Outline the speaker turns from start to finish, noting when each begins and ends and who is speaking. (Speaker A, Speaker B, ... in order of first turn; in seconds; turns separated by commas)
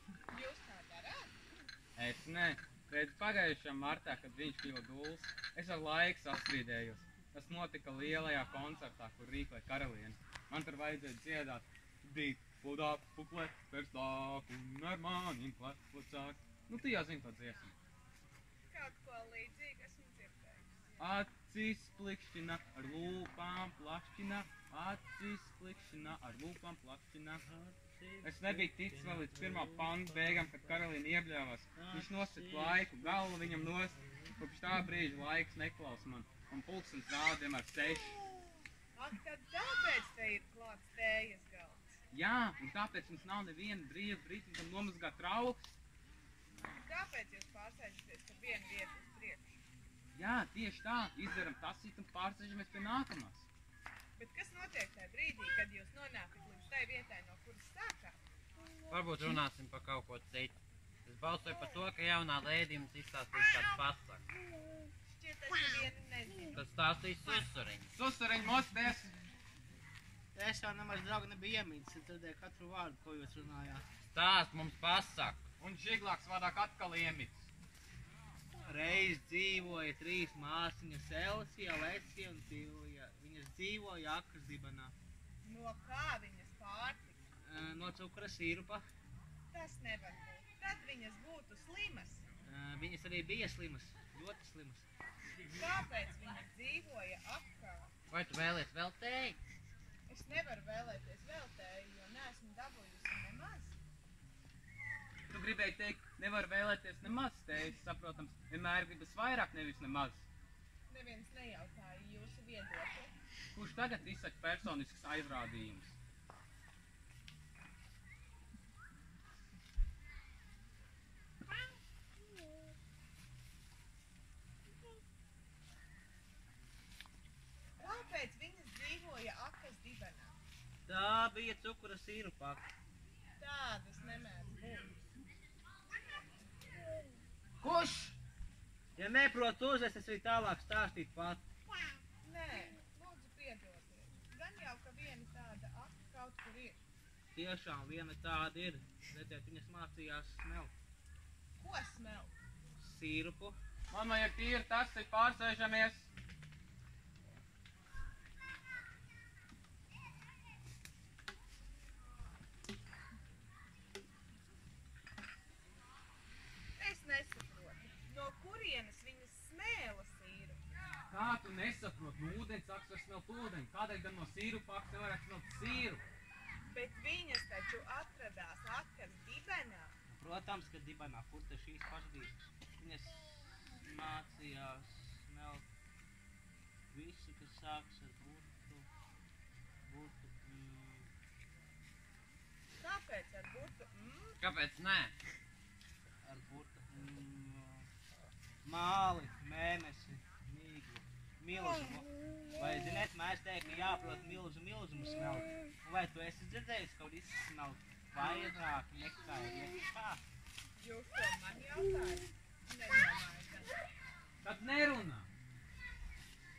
Speaker A: 0.3-1.4, Speaker B: 2.0-17.8, Speaker A: 18.7-20.9, Speaker B: 21.0-27.4, Speaker C: 27.4-30.9, Speaker B: 28.2-38.2, Speaker C: 31.8-34.0, Speaker A: 39.0-41.9, Speaker B: 42.1-45.6, Speaker A: 46.7-49.6, Speaker B: 50.1-53.5, Speaker A: 54.2-58.2, Speaker D: 58.9-64.2, Speaker A: 65.1-66.6, Speaker D: 66.5-67.9, Speaker B: 67.9-69.1, Speaker C: 70.3-73.8, Speaker D: 74.1-75.4, Speaker B: 75.6-77.5, Speaker C: 78.7-84.9, Speaker A: 85.4-87.2, Speaker C: 87.5-88.8, Speaker A: 89.5-92.2, Speaker C: 92.5-94.9, Speaker A: 95.5-97.9, Speaker D: 98.1-99.4, Speaker A: 100.1-103.8, Speaker B: 105.3-110.3, Speaker A: 110.9-113.1, Speaker B: 113.5-116.0, Speaker A: 127.8-130.4, Speaker C: 130.9-132.7, Speaker A: 133.4-134.6, Speaker C: 134.6-134.9, Speaker C: 137.6-138.1, Speaker C: 139.0-141.4, Speaker A: 142.2-146.8, Speaker C: 147.3-150.7, Speaker A: 151.6-152.3, Speaker C: 152.8-153.6, Speaker B: 153.9-156.1, Speaker A: 166.8-170.7, Speaker B: 171.1-176.0, Speaker A: 176.7-179.9, Speaker C: 180.1-185.7, Speaker C: 186.9-188.9, Speaker C: 189.8-191.1, Speaker A: 192.8-194.4, Speaker D: 194.4-195.2, Speaker C: 196.2-197.9, Speaker C: 198.6-210.2, Speaker A: 210.8-213.8, Speaker B: 214.4-215.3